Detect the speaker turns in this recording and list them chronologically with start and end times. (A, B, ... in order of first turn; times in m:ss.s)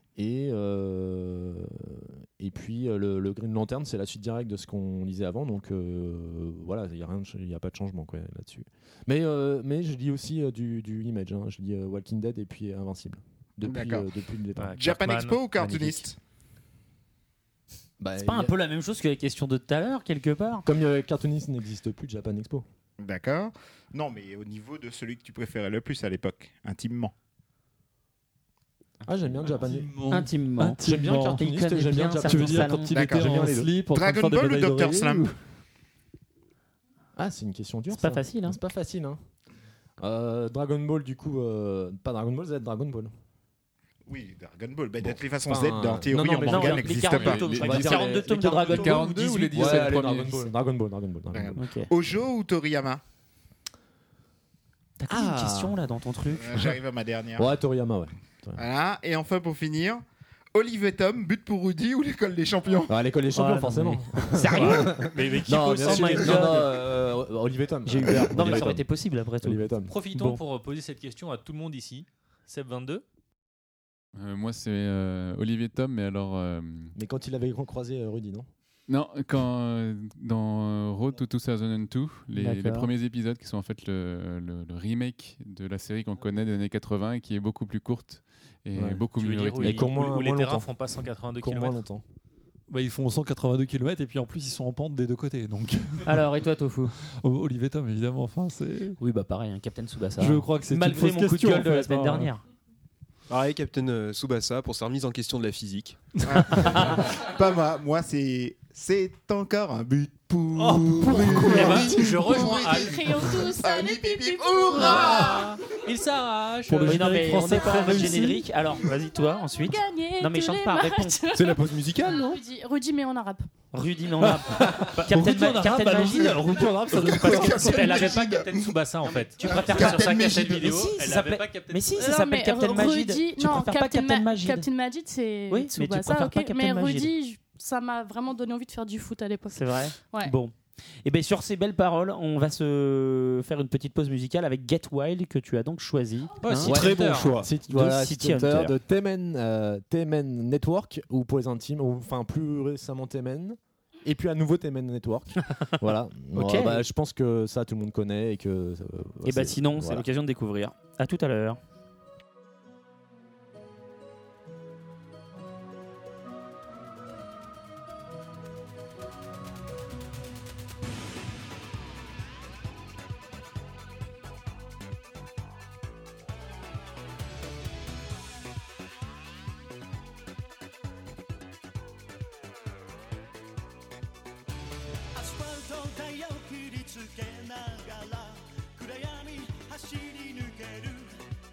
0:00.2-0:14.9 A
0:13.6-0:14.1 B
0:14.6-0:15.8 C
0:14.7-0:16.2 B
0:15.6-0:16.0 A
0:18.0-0:18.6 A
0:18.2-0:20.7 D
0:20.7-0:22.6 A
0:23.0-0:27.1 B
0:29.1-0:30.1 A
0:30.0-0:31.4 E
0:30.1-0:30.8 D
0:30.8-0:33.7 A
0:31.4-0:32.9 D
0:32.3-0:35.4 E
0:32.9-0:35.3 B
0:37.2-0:39.2 A
0:37.9-0:38.6 D
0:40.0-0:43.1 A
0:44.1-0:47.6 B
0:45.1-0:51.6 A
0:46.4-0:50.0 D
0:47.4-0:50.5 F
0:51.3-0:53.0 B
0:51.6-0:51.9 D
0:55.0-0:56.6 D
0:55.1-0:55.8 A
0:56.3-0:57.5 B
0:57.4-0:58.6 A
0:58.6-1:03.0 B
1:02.9-1:08.8 A
1:03.4-1:04.9 D
1:04.4-1:06.7 C
1:05.8-1:06.6 D
1:07.9-1:10.4 D
1:09.4-1:09.9 A
1:09.9-1:13.0 C
1:14.2-1:17.0 F
1:17.0-1:18.5 A
1:18.9-1:29.9 F
1:22.4-1:22.9 D
1:28.8-1:30.7 A
1:29.2-1:31.8 C
1:31.4-1:32.0 A
1:32.7-1:36.2 E
1:36.1-1:36.9 D
1:37.2-1:39.0 E
1:39.0-1:42.4 D
1:40.2-1:42.3 E
1:43.3-1:46.0 G
1:46.3-1:55.6 B
1:50.7-1:53.4 C
1:50.7-1:51.9 E
1:52.2-1:55.3 H
1:54.9-1:57.0 C
1:56.7-1:58.5 E
1:56.9-2:01.2 D
1:59.5-2:03.5 H
2:01.3-2:02.3 G
2:03.7-2:08.3 D
2:04.6-2:08.1 E
2:06.9-2:08.7 B
2:07.7-2:12.0 C
2:09.1-2:14.7 D
2:09.5-2:10.7 B
2:12.0-2:20.3 H
2:15.5-2:17.1 D
2:19.5-2:20.5 D
2:21.0-2:26.8 D
2:26.4-2:27.5 C
2:26.6-2:40.0 A
2:27.7-2:28.7 D
2:36.3-2:36.8 D
2:39.2-2:41.6 D
3:05.4-3:11.0 I